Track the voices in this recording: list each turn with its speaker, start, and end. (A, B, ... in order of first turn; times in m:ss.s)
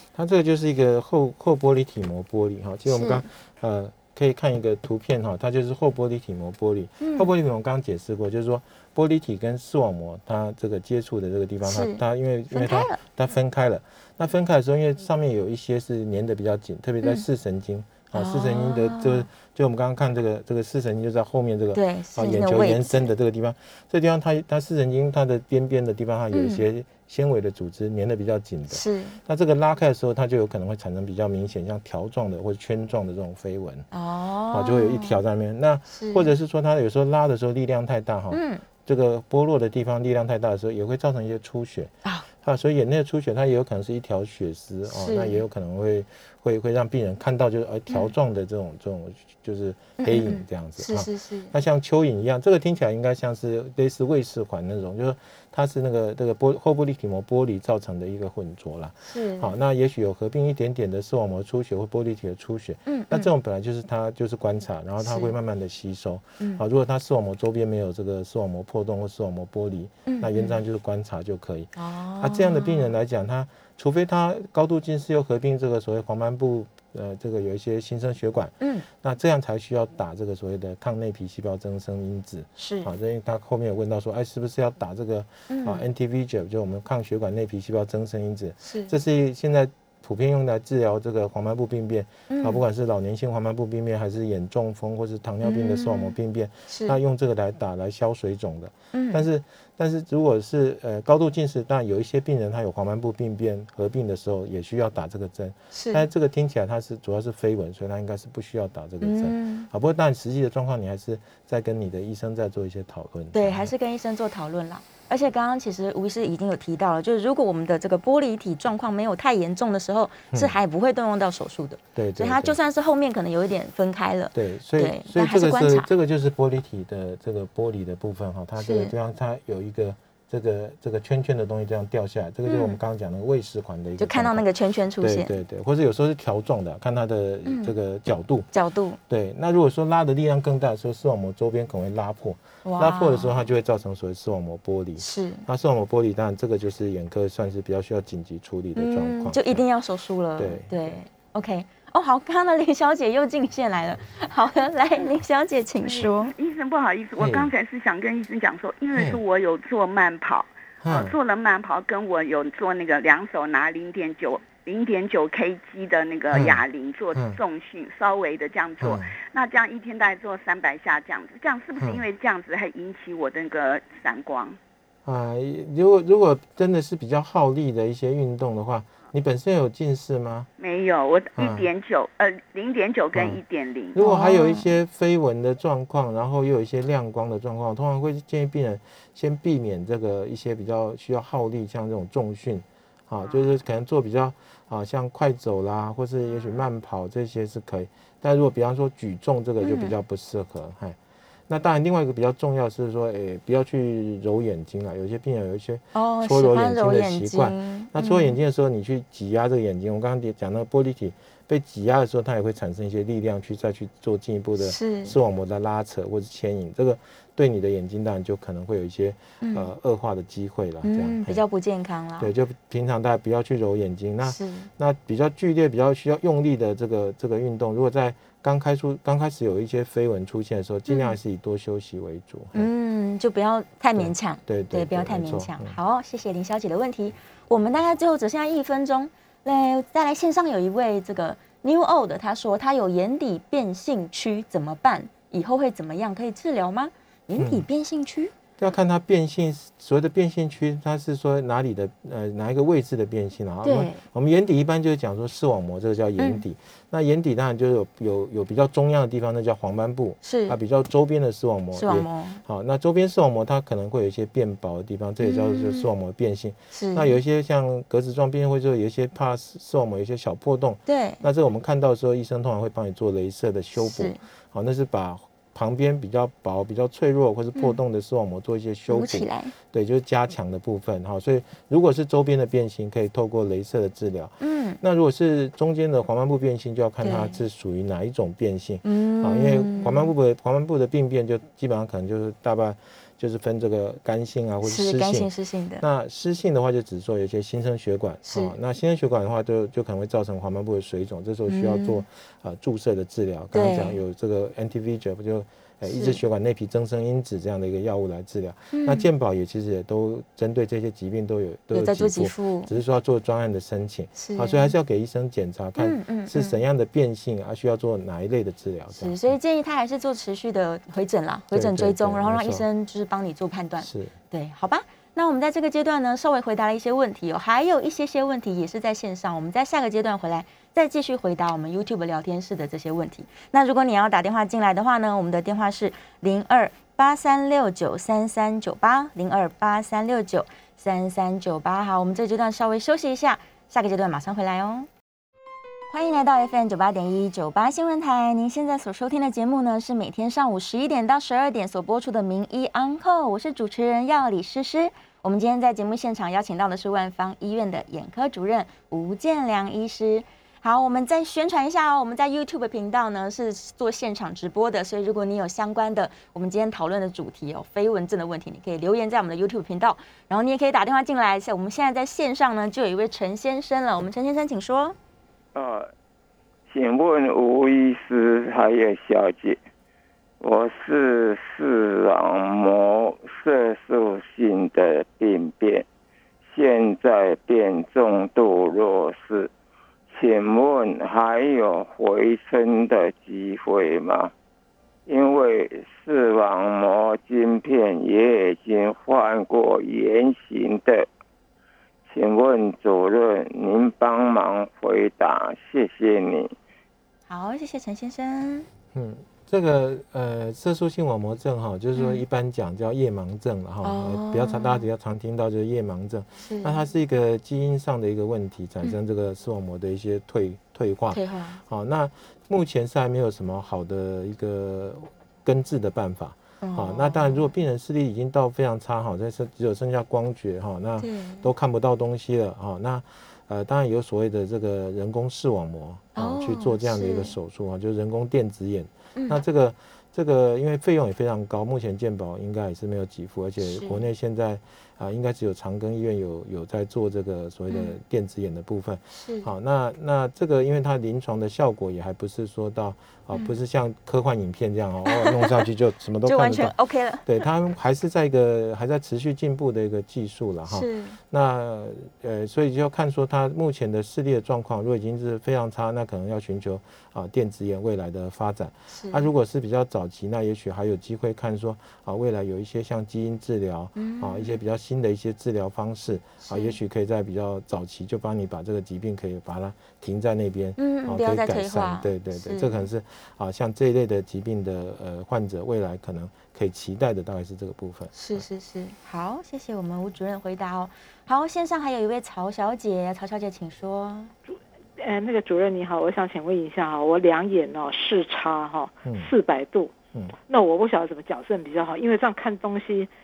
0:00.1-0:33.9 A
0:02.9-0:03.2 B
0:07.0-0:07.3 B
0:11.6-0:13.0 B
0:18.1-0:19.3 B
0:21.7-0:23.1 B
0:26.3-0:26.6 B
0:28.7-0:29.2 B
0:33.9-0:35.2 B
0:34.5-1:53.7 A
0:35.9-0:36.3 B
0:38.3-0:38.6 B
0:44.9-0:45.4 B
0:50.0-0:51.5 B
0:59.1-0:59.5 B
1:02.8-1:03.3 B
1:05.0-1:05.3 B
1:10.0-1:10.6 B
1:11.8-1:12.9 B
1:18.6-1:18.8 B
1:22.6-1:22.9 B
1:25.5-1:25.8 B
1:28.6-1:28.9 B
1:32.3-1:32.6 B
1:35.4-1:36.1 B
1:36.7-1:37.0 B
1:38.9-1:39.2 B
1:45.7-1:46.0 B
1:49.0-1:49.7 B
1:53.3-2:05.9 B
2:01.9-2:02.6 A
2:04.3-2:14.5 A
2:08.6-2:08.9 B
2:12.4-2:12.8 B
2:14.0-2:15.3 B
2:15.0-2:18.5 A
2:17.4-2:17.7 B
2:18.5-2:19.0 B
2:19.1-2:29.6 A
2:22.6-2:23.5 B
2:25.0-2:25.4 B
2:28.8-2:36.3 B
2:30.4-2:30.9 A
2:35.8-2:54.6 C
2:37.2-2:37.5 A
2:38.9-2:39.2 A
2:40.8-2:41.1 A
2:46.3-2:46.6 A
2:47.1-2:47.4 A
2:48.8-2:49.1 A
2:51.8-2:52.0 A
2:55.0-3:00.5 A
3:00.6-3:04.0 C
3:01.4-3:01.7 A
3:03.1-3:03.4 A
3:03.9-3:21.0 A
3:04.0-3:04.7 B
3:19.6-3:19.9 B
3:21.5-3:41.4 A
3:25.9-3:28.4 B
3:34.6-3:35.1 B
3:39.4-3:39.7 B
3:40.8-3:42.3 B
3:42.2-3:52.7 A
3:44.2-3:44.7 B
3:50.9-3:51.1 B
3:52.5-4:08.3 B
3:53.9-3:55.8 A
4:07.4-4:07.6 A
4:08.6-5:19.2 A
4:13.6-4:14.0 B
4:20.2-4:20.6 B
4:21.7-4:22.4 B
4:25.2-4:25.9 B
4:26.7-4:27.2 B
4:30.9-4:31.2 B
4:33.8-4:34.2 B
4:38.9-4:39.5 B
4:44.4-4:44.8 B
4:47.0-4:47.4 B
4:48.8-4:50.1 B
4:54.6-4:55.8 B
4:58.2-4:58.5 B
5:01.5-5:02.0 B
5:03.5-5:04.0 B
5:05.8-5:06.2 B
5:08.7-5:09.1 B
5:11.7-5:12.7 B
5:14.2-5:14.7 B
5:15.8-5:16.6 B
5:18.9-5:44.9 B
5:21.5-5:22.6 A
5:23.8-5:24.1 A
5:45.9-6:15.0 B
6:15.5-6:15.9 D
6:16.7-6:19.6 D
6:20.4-6:25.9 D
6:26.5-6:29.5 D
6:30.1-6:34.3 D
6:35.1-6:41.1 D
6:42.1-6:46.5 D
6:47.3-6:48.7 B
6:48.9-7:36.7 A
6:52.0-6:52.2 B
6:53.8-6:54.8 B
6:56.4-6:56.8 B
7:01.1-7:01.6 B
7:06.6-7:07.5 B
7:11.0-7:11.5 B
7:16.2-7:17.4 B
7:19.1-7:19.4 B
7:23.6-7:24.0 B
7:29.1-7:29.5 B
7:35.0-7:35.6 B
7:36.2-7:37.3 B
7:37.2-8:08.4 A
7:40.7-7:41.2 B
7:48.9-7:49.3 B
7:54.0-7:54.6 B
7:56.4-7:56.7 B
8:00.8-8:02.9 B
8:08.1-8:14.3 B
8:15.0-8:19.9 E
8:19.0-8:19.3 A
8:20.5-8:23.1 E